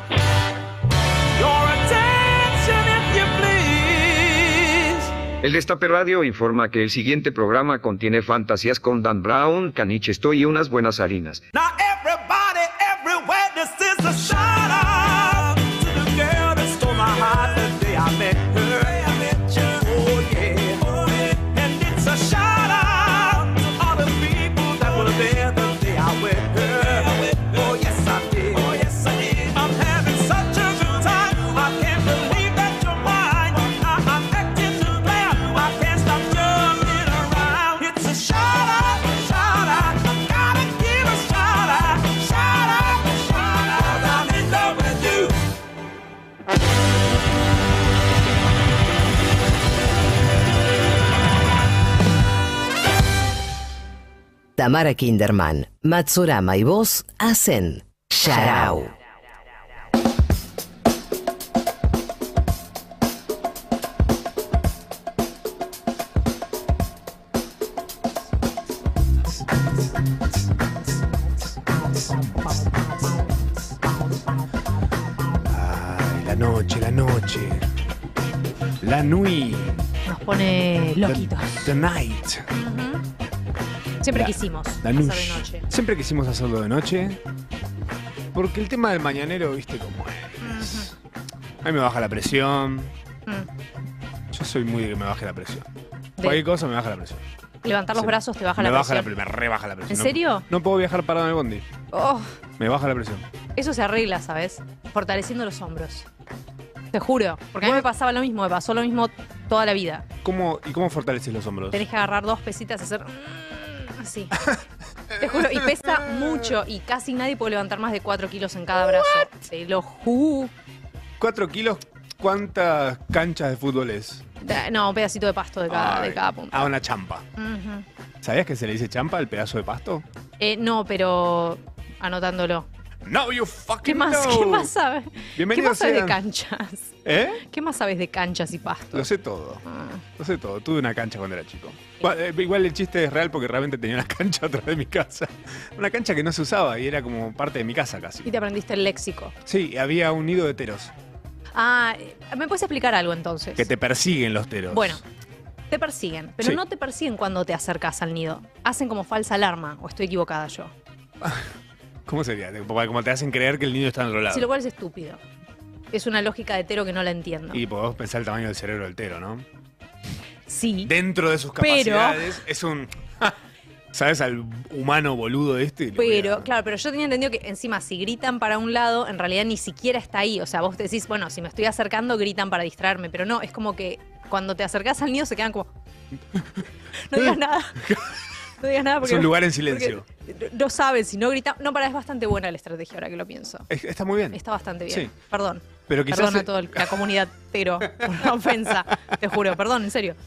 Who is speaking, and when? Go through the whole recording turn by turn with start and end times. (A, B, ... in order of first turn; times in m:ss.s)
0:01.3-0:05.3 A
0:05.4-0:11.4 B
0:11.5-0:45.4 A
0:54.6-0:58.9 C
1:15.5-1:17.7 D
1:18.8-1:19.8 D
1:20.0-1:21.7 E
1:21.0-1:22.5 D
1:22.5-1:23.0 E
1:24.0-1:25.6 E
1:24.1-1:27.2 D
1:28.3-1:30.9 D
1:30.4-1:30.9 E
1:31.6-1:32.9 D
1:34.3-1:35.7 D
1:36.2-1:36.4 E
1:36.2-1:37.2 D
1:37.6-1:39.2 E
1:37.9-1:41.7 D
1:39.9-1:40.4 E
1:41.9-1:42.4 E
1:42.6-1:43.3 D
1:43.6-1:46.1 E
1:46.9-1:50.0 E
1:50.2-1:51.8 D
1:51.7-1:54.4 E
1:55.1-1:56.4 D
1:55.2-2:00.5 E
1:58.8-1:59.3 D
2:01.2-2:04.2 D
2:04.4-2:06.7 E
2:05.7-2:07.2 D
2:07.4-2:07.8 E
2:08.2-2:10.0 D
2:10.4-2:12.7 E
2:13.0-2:14.7 D
2:13.8-2:19.1 E
2:15.4-2:16.2 D
2:17.0-2:17.4 D
2:18.9-2:19.6 D
2:19.6-2:20.0 E
2:20.2-2:28.3 D
2:28.2-2:29.4 E
2:29.4-2:30.9 D
2:31.5-2:33.7 E
2:33.6-2:35.0 D
2:34.7-2:35.0 E
2:35.7-2:40.7 E
2:41.2-2:41.5 D
2:42.0-2:44.5 D
2:44.3-2:45.2 E
2:45.9-2:47.6 E
2:47.5-2:49.4 D
2:50.5-2:50.9 E
2:50.8-2:53.4 D
2:51.6-2:52.3 E
2:53.9-2:56.5 D
2:56.0-3:05.7 E
3:06.4-3:06.6 D
3:07.0-3:07.8 E
3:07.1-3:08.2 D
3:08.6-3:13.7 E
3:09.0-3:10.0 D
3:13.7-3:15.1 D
3:14.3-3:20.2 E
3:15.9-3:16.8 D
3:17.9-3:18.3 D